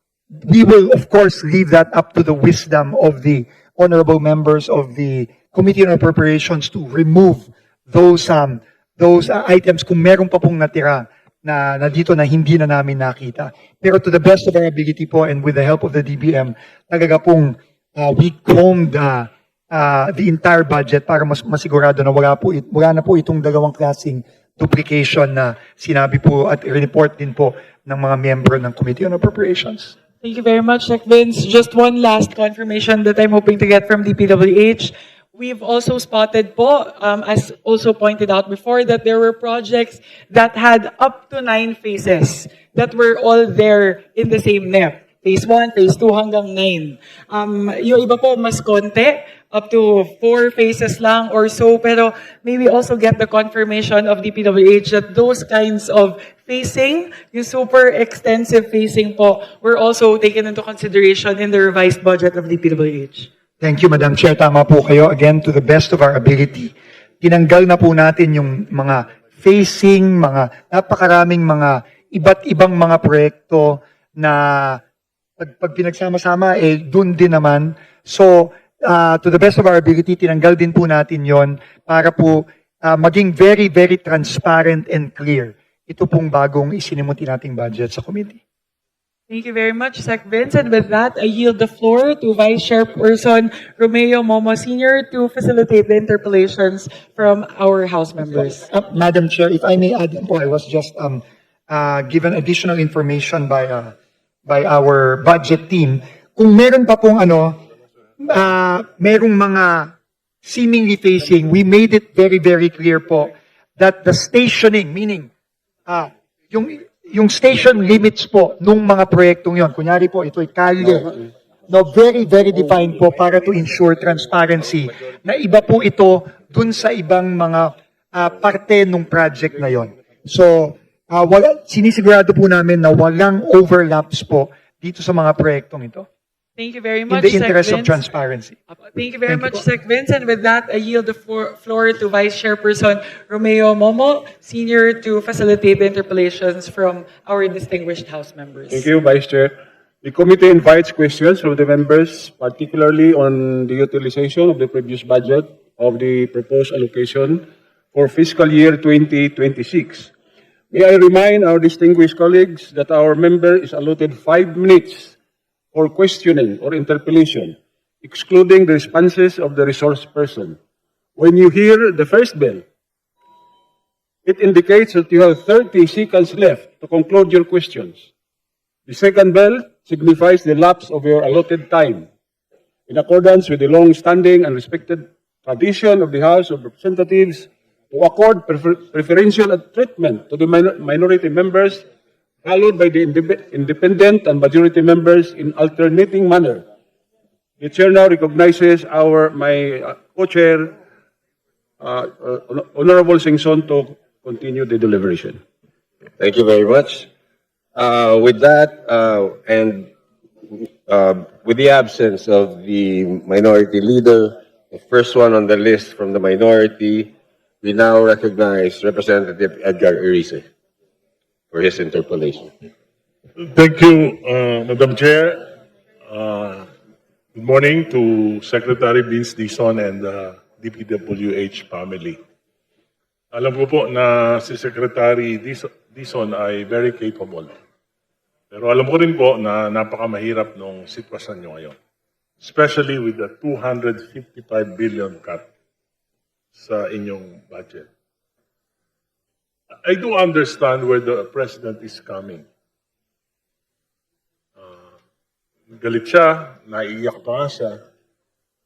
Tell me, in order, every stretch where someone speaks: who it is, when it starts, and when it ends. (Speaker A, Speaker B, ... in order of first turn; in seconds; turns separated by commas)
Speaker A: 0.4-29.9, Speaker B: 30.2-63.3, Speaker A: 63.6-74.8, Speaker A: 75.4-88.4, Speaker B: 89.3-98.6, Speaker A: 98.7-103.9, Speaker A: 104.5-107.6, Speaker A: 108.2-115.3, Speaker A: 115.9-121.1, Speaker A: 121.7-136.1, Speaker B: 136.6-138.0, Speaker A: 137.1-138.6, Speaker B: 138.8-148.8, Speaker A: 139.3-139.6, Speaker C: 148.7-160.1, Speaker C: 160.7-165.2, Speaker C: 165.7-170.6, Speaker C: 171.2-172.6, Speaker C: 174.2-178.1, Speaker C: 178.8-182.1, Speaker C: 182.9-191.8, Speaker C: 192.4-196.6, Speaker C: 197.6-200.7, Speaker C: 201.8-205.4, Speaker D: 206.2-207.1, Speaker D: 207.7-209.9, Speaker D: 210.5-220.4, Speaker D: 221.5-222.5, Speaker E: 223.4-225.4, Speaker E: 226.1-226.7, Speaker E: 227.3-232.2, Speaker E: 233.3-237.5, Speaker E: 238.5-241.7, Speaker E: 242.4-245.4, Speaker E: 246.5-247.9, Speaker E: 249.8-252.4, Speaker E: 254.6-254.8, Speaker E: 255.7-257.8